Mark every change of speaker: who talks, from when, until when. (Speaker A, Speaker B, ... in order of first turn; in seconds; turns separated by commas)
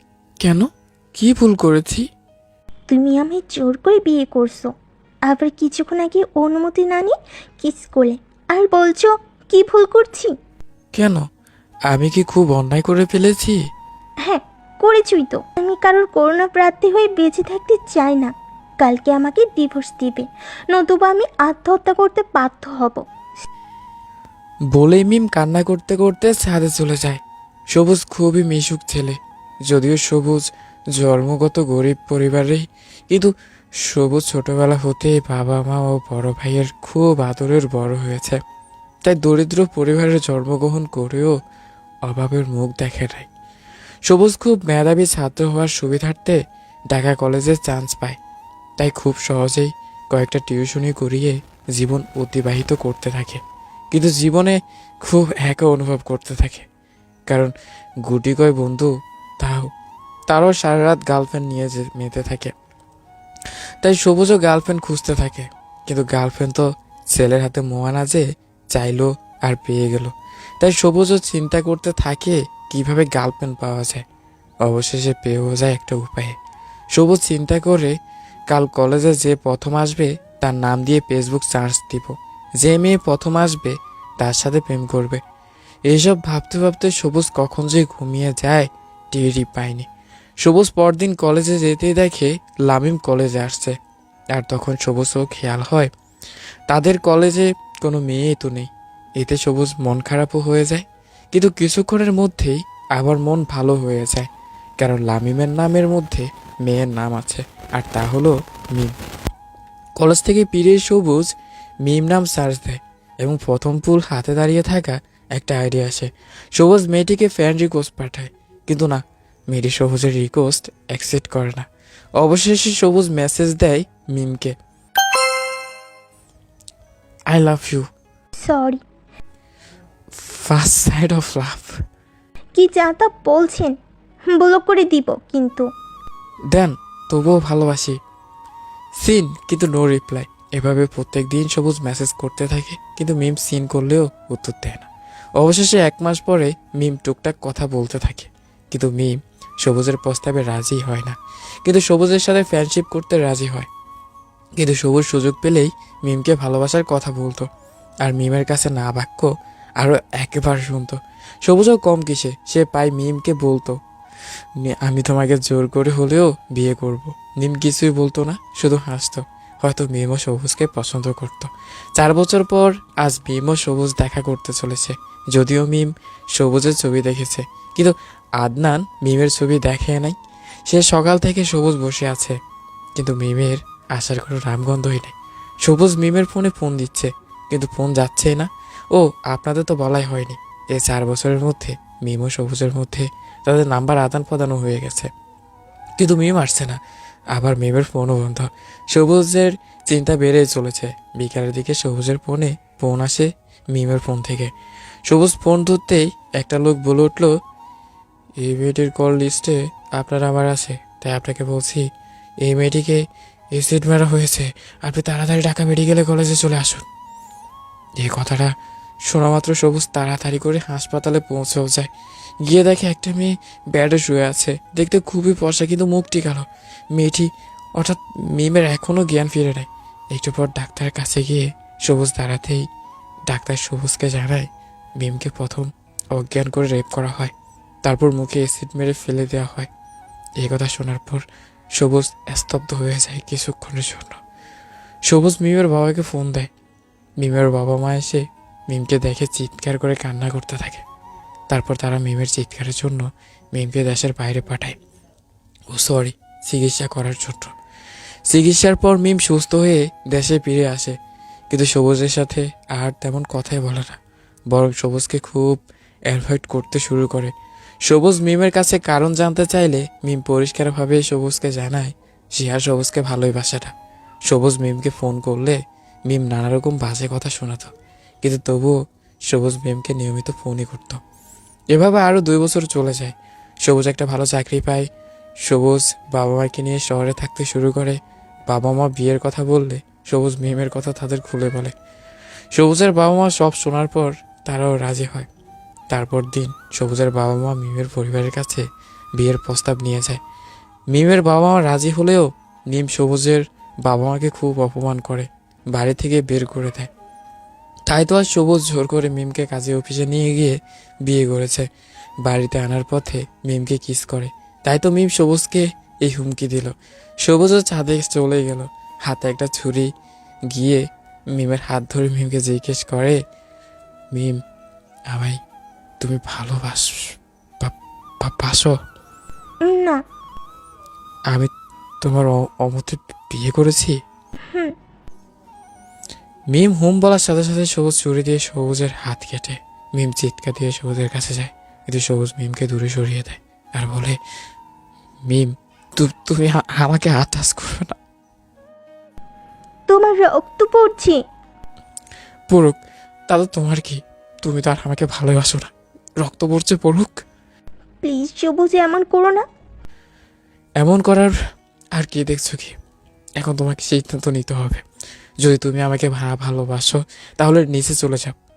Speaker A: 0.4-2.0, Speaker B: 2.9-4.7, Speaker B: 5.3-10.3, Speaker A: 10.9-11.2, Speaker A: 11.9-13.6, Speaker B: 14.2-23.1, Speaker A: 24.7-29.2, Speaker A: 29.7-33.3, Speaker A: 33.9-38.4, Speaker A: 39.0-41.4, Speaker A: 42.0-43.3, Speaker A: 44.1-46.4, Speaker A: 46.9-48.2, Speaker A: 48.8-56.6, Speaker A: 58.0-59.7, Speaker A: 60.3-62.5, Speaker A: 63.8-74.0, Speaker A: 74.7-76.3, Speaker A: 77.0-77.9, Speaker A: 78.5-85.2, Speaker A: 85.9-89.9, Speaker A: 90.4-93.8, Speaker A: 94.3-95.9, Speaker A: 96.7-104.3, Speaker A: 104.8-108.9, Speaker A: 110.0-111.3, Speaker A: 111.8-121.7, Speaker A: 122.2-124.5, Speaker A: 127.3-127.8, Speaker B: 128.3-128.8, Speaker A: 130.1-131.8, Speaker B: 132.6-133.8, Speaker B: 134.3-135.7, Speaker A: 136.5-138.0, Speaker A: 139.0-153.7, Speaker A: 154.6-157.5, Speaker A: 158.0-163.8, Speaker A: 164.6-180.2, Speaker A: 180.7-182.4, Speaker A: 183.0-195.1, Speaker A: 196.0-196.8, Speaker A: 197.3-204.5, Speaker A: 205.1-207.3, Speaker A: 208.4-211.9, Speaker A: 212.4-216.9, Speaker A: 218.0-218.5, Speaker A: 219.1-221.9, Speaker A: 222.4-232.7, Speaker A: 233.3-239.7, Speaker A: 240.4-244.2, Speaker A: 245.1-246.5, Speaker A: 247.2-250.8, Speaker A: 251.5-254.8, Speaker A: 255.7-257.5, Speaker A: 258.3-261.0, Speaker A: 261.5-264.0, Speaker A: 264.5-265.6, Speaker A: 266.1-267.3, Speaker A: 267.9-273.7, Speaker A: 274.3-278.8, Speaker A: 279.3-281.0, Speaker A: 281.7-284.9, Speaker A: 285.4-291.8, Speaker A: 292.5-295.3, Speaker A: 295.9-298.6, Speaker A: 299.2-300.2, Speaker A: 300.9-306.9, Speaker A: 307.9-311.7, Speaker A: 312.2-319.9, Speaker A: 320.5-320.8, Speaker A: 321.4-323.2, Speaker A: 325.1-325.4, Speaker A: 326.0-328.7, Speaker B: 329.6-330.0, Speaker A: 332.0-334.0, Speaker B: 334.5-334.8, Speaker A: 336.5-344.2, Speaker A: 345.3-348.0, Speaker B: 349.9-351.2, Speaker A: 352.5-352.8, Speaker A: 353.3-357.2, Speaker B: 358.0-359.4, Speaker A: 360.8-361.4, Speaker A: 361.9-362.8, Speaker A: 363.4-364.8, Speaker A: 365.4-368.4